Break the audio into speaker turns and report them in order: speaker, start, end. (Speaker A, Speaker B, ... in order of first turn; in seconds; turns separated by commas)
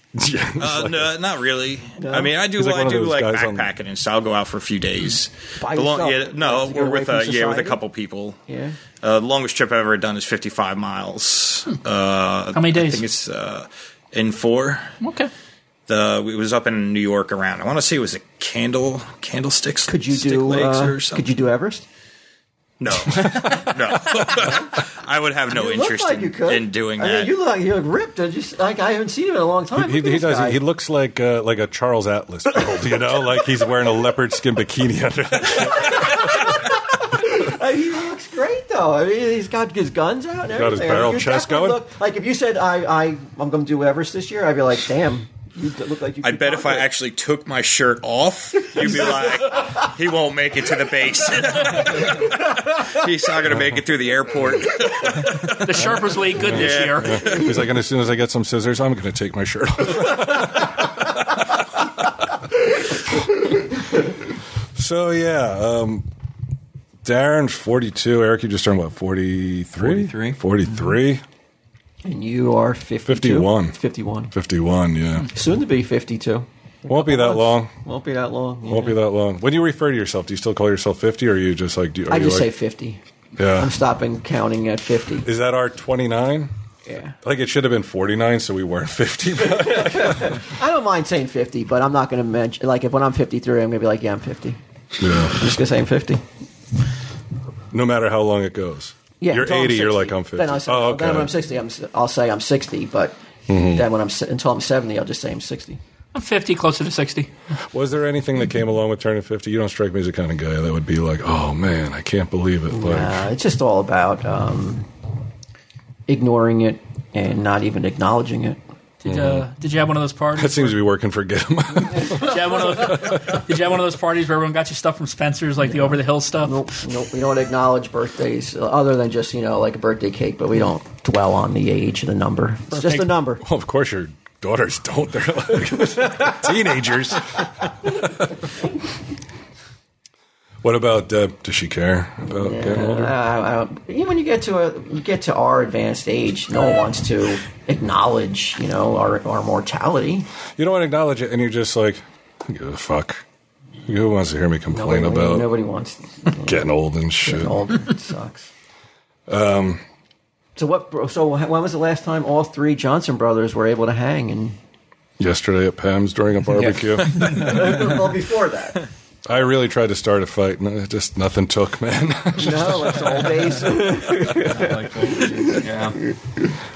Speaker A: 0.1-1.2, Speaker B: 0.6-8.4, Speaker C: 2.0-2.4, Speaker A: 2.4-3.7, Speaker C: 5.6-7.8, Speaker C: 8.5-8.8, Speaker B: 9.0-15.0, Speaker D: 12.5-13.1, Speaker D: 15.0-15.3, Speaker B: 15.9-21.3, Speaker C: 19.9-21.8, Speaker B: 22.8-27.3, Speaker C: 24.4-24.6, Speaker C: 25.5-30.6, Speaker A: 29.7-36.6, Speaker C: 35.6-46.9, Speaker A: 40.5-41.8, Speaker B: 46.2-57.6, Speaker C: 48.9-49.2, Speaker A: 53.5-53.8, Speaker D: 55.6-57.2, Speaker A: 56.4-61.9, Speaker A: 64.8-66.1, Speaker A: 67.0-71.2, Speaker E: 69.8-70.9, Speaker C: 72.0-74.3, Speaker A: 73.0-73.8, Speaker A: 74.3-75.3, Speaker C: 75.3-79.0, Speaker A: 76.8-77.7, Speaker A: 78.7-82.5, Speaker C: 82.1-85.2, Speaker A: 83.4-83.7, Speaker A: 85.2-86.5, Speaker C: 86.8-87.1, Speaker A: 87.2-90.4, Speaker C: 89.8-94.6, Speaker A: 95.0-95.4, Speaker C: 95.1-96.2, Speaker A: 97.7-101.3, Speaker C: 99.2-105.8, Speaker A: 103.5-103.8, Speaker D: 106.1-107.3, Speaker A: 107.7-113.2, Speaker C: 112.7-114.9, Speaker C: 116.1-118.6, Speaker D: 119.0-120.8, Speaker A: 119.0-119.5, Speaker A: 120.3-123.4, Speaker C: 121.9-122.3, Speaker D: 122.0-126.6, Speaker C: 125.6-133.4, Speaker D: 132.7-133.1, Speaker A: 133.4-138.4, Speaker A: 140.6-143.2, Speaker C: 142.3-150.3, Speaker A: 150.6-153.2, Speaker A: 153.9-155.5, Speaker C: 154.7-156.6, Speaker A: 156.4-157.7, Speaker C: 157.2-158.5, Speaker A: 159.3-159.8, Speaker C: 160.6-164.6, Speaker A: 165.2-167.9, Speaker C: 167.0-168.8, Speaker A: 169.2-173.6, Speaker C: 172.3-175.6, Speaker E: 174.1-176.0